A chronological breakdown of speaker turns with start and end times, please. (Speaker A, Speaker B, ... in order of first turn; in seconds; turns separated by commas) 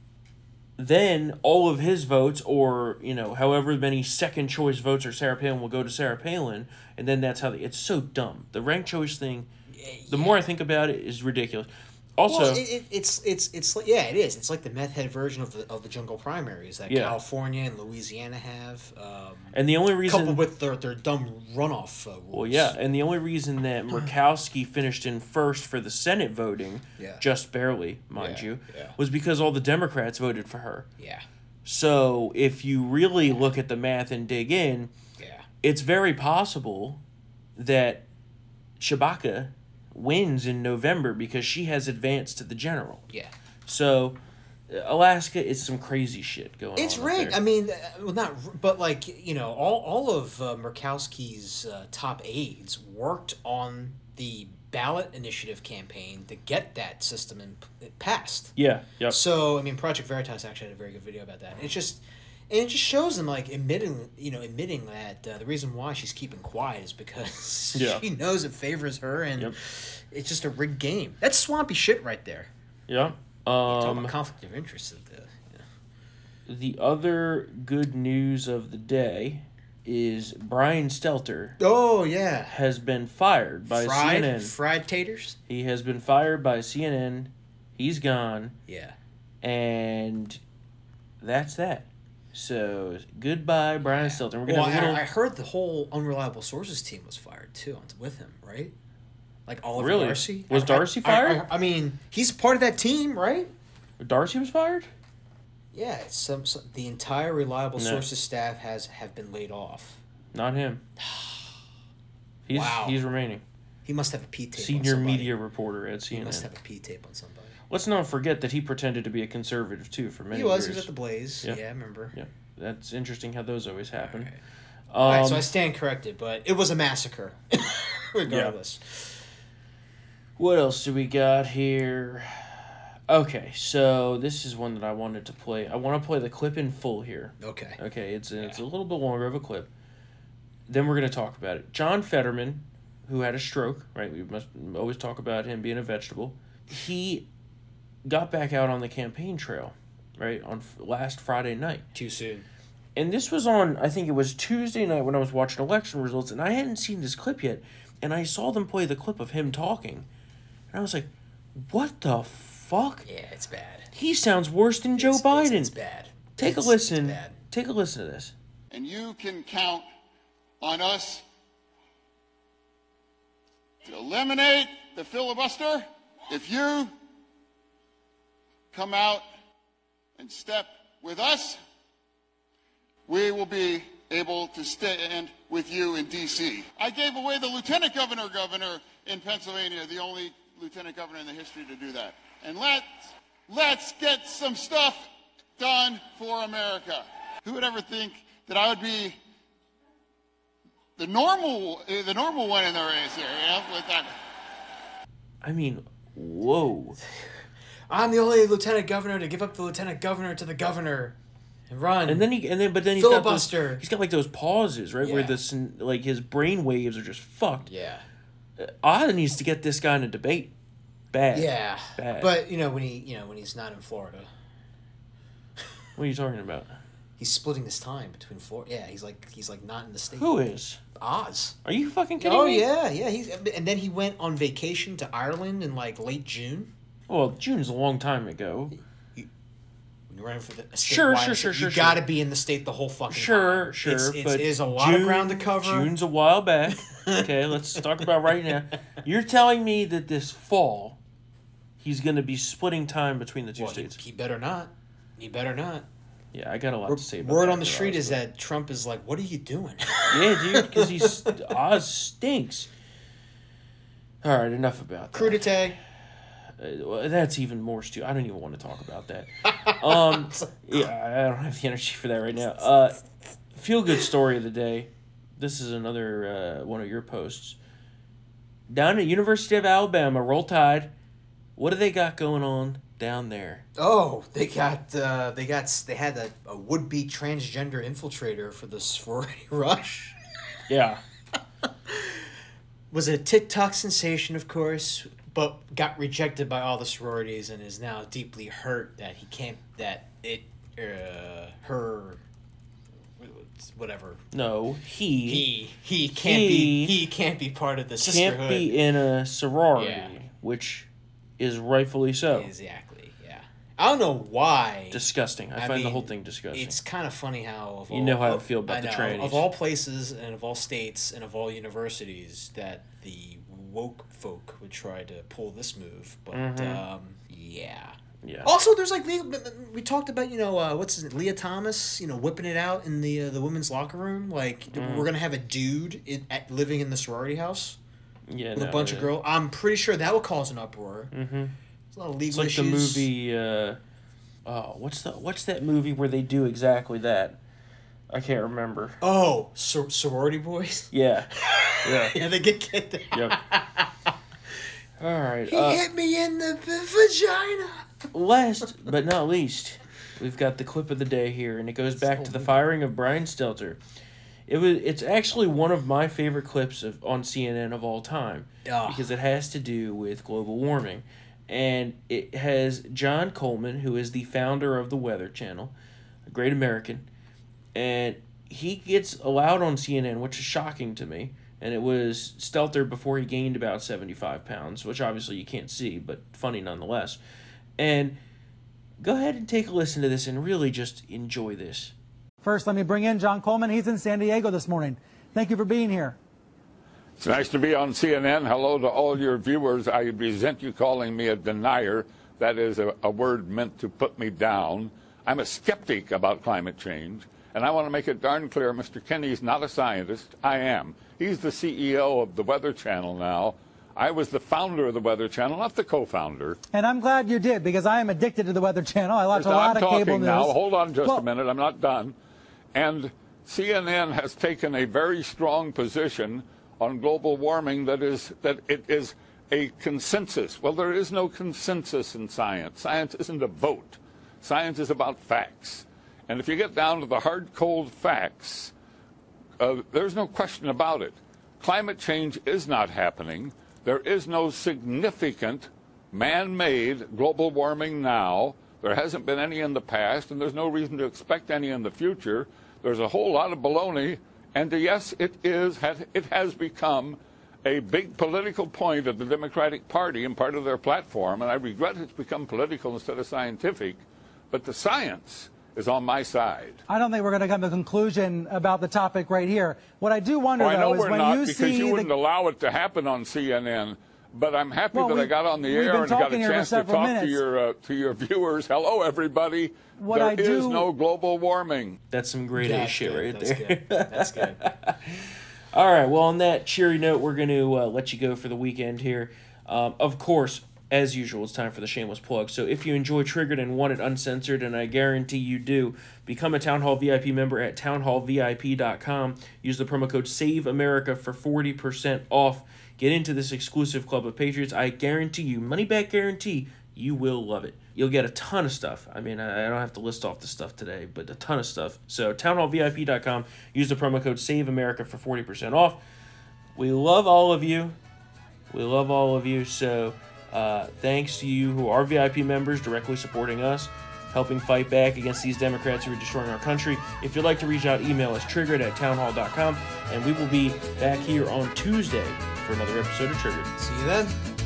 Speaker A: 0.8-9.5, Speaker B: 9.7-10.5, Speaker A: 10.1-12.6, Speaker B: 12.3-22.8, Speaker A: 16.9-17.2, Speaker A: 19.5-20.4, Speaker A: 22.3-30.9, Speaker B: 27.0-27.2, Speaker B: 28.2-29.0, Speaker B: 31.0-31.3, Speaker A: 31.6-34.9, Speaker B: 35.2-35.5, Speaker A: 35.6-37.0, Speaker A: 37.6-38.0, Speaker A: 38.8-43.1, Speaker A: 43.7-47.4, Speaker B: 46.8-58.5, Speaker A: 58.6-59.2, Speaker B: 59.1-72.5, Speaker A: 67.8-68.0, Speaker A: 72.9-74.2, Speaker B: 73.7-75.7, Speaker A: 76.5-81.6, Speaker B: 81.6-82.6, Speaker A: 82.5-84.5, Speaker B: 83.7-85.4, Speaker A: 85.5-88.6, Speaker B: 88.7-89.0, Speaker A: 89.4-90.4, Speaker A: 91.2-95.0, Speaker B: 93.8-98.7, Speaker B: 99.5-103.5, Speaker A: 99.8-101.5, Speaker A: 104.0-104.9, Speaker B: 105.7-110.0, Speaker A: 107.8-108.0, Speaker A: 110.3-110.8, Speaker B: 111.0-111.5, Speaker A: 112.5-113.4, Speaker B: 112.5-113.0, Speaker B: 113.8-115.3, Speaker A: 114.6-116.5, Speaker B: 116.1-117.6, Speaker A: 117.7-120.9, Speaker B: 120.3-122.2, Speaker A: 122.1-124.3, Speaker B: 124.0-124.4, Speaker A: 124.9-125.5, Speaker B: 125.0-129.2, Speaker A: 128.3-128.6, Speaker A: 130.4-139.7, Speaker B: 137.4-137.8, Speaker A: 140.7-147.3, Speaker A: 148.1-151.8, Speaker B: 151.9-152.5, Speaker A: 153.0-160.1, Speaker A: 160.7-163.1, Speaker B: 163.1-163.9, Speaker A: 163.9-165.7, Speaker B: 164.9-167.4, Speaker A: 166.4-168.3, Speaker C: 168.7-169.9, Speaker C: 170.6-171.2, Speaker C: 173.8-176.9, Speaker C: 178.7-179.2, Speaker C: 180.2-181.6, Speaker C: 183.1-192.9, Speaker C: 193.5-199.2, Speaker C: 201.0-204.1, Speaker A: 205.4-207.0, Speaker B: 207.9-211.2, Speaker B: 211.7-212.3, Speaker A: 212.1-217.7, Speaker B: 212.9-213.8, Speaker B: 215.0-215.4, Speaker B: 217.7-218.1, Speaker A: 218.6-220.5, Speaker A: 221.1-222.3, Speaker B: 221.3-224.3, Speaker A: 226.0-226.8, Speaker B: 227.2-230.3, Speaker A: 230.2-230.8, Speaker B: 231.0-231.6, Speaker A: 231.6-232.7, Speaker B: 232.2-236.7, Speaker A: 237.1-238.8, Speaker B: 240.1-245.9, Speaker A: 240.8-242.0, Speaker A: 243.1-251.0, Speaker B: 246.8-248.1, Speaker A: 251.8-254.0, Speaker B: 253.6-255.9, Speaker A: 256.3-258.2, Speaker B: 256.9-261.6, Speaker A: 260.1-262.7, Speaker A: 264.2-265.5, Speaker B: 265.1-265.8, Speaker A: 266.6-273.0, Speaker B: 269.5-270.5, Speaker A: 273.5-277.6, Speaker A: 278.7-280.9, Speaker A: 281.6-283.7, Speaker B: 283.8-290.2, Speaker A: 290.7-291.0, Speaker B: 291.6-292.2, Speaker B: 292.9-302.2, Speaker B: 303.2-304.2, Speaker A: 304.3-305.5, Speaker B: 305.2-308.7, Speaker A: 306.2-307.0, Speaker A: 308.0-310.9, Speaker B: 309.8-310.1, Speaker A: 311.4-312.5, Speaker B: 312.3-315.0, Speaker A: 314.9-316.8, Speaker B: 315.6-337.8, Speaker A: 317.9-319.5, Speaker A: 326.3-326.8, Speaker A: 328.2-328.5, Speaker A: 334.7-335.1, Speaker A: 338.3-339.1, Speaker B: 338.6-341.1, Speaker A: 341.1-341.6, Speaker B: 341.9-343.1, Speaker A: 342.3-343.8, Speaker A: 344.5-347.4, Speaker A: 348.1-349.0, Speaker B: 349.0-354.1, Speaker A: 350.9-352.2, Speaker A: 353.1-353.4, Speaker A: 355.0-355.8, Speaker B: 355.5-358.1, Speaker A: 358.1-363.8, Speaker B: 362.1-362.6, Speaker A: 364.5-375.7, Speaker B: 368.6-369.1, Speaker A: 376.3-377.1, Speaker A: 377.8-387.2, Speaker A: 387.8-388.2, Speaker A: 389.0-391.9, Speaker D: 392.4-396.2, Speaker E: 397.2-416.6, Speaker D: 416.7-421.3, Speaker E: 419.3-422.1, Speaker E: 422.7-438.7, Speaker E: 439.6-464.0, Speaker E: 464.5-466.8, Speaker D: 466.9-472.1, Speaker E: 470.6-482.0, Speaker D: 474.9-477.4, Speaker D: 480.0-480.9, Speaker A: 482.1-516.0, Speaker B: 482.6-484.7, Speaker A: 516.8-518.0, Speaker A: 518.7-533.7, Speaker B: 533.8-534.4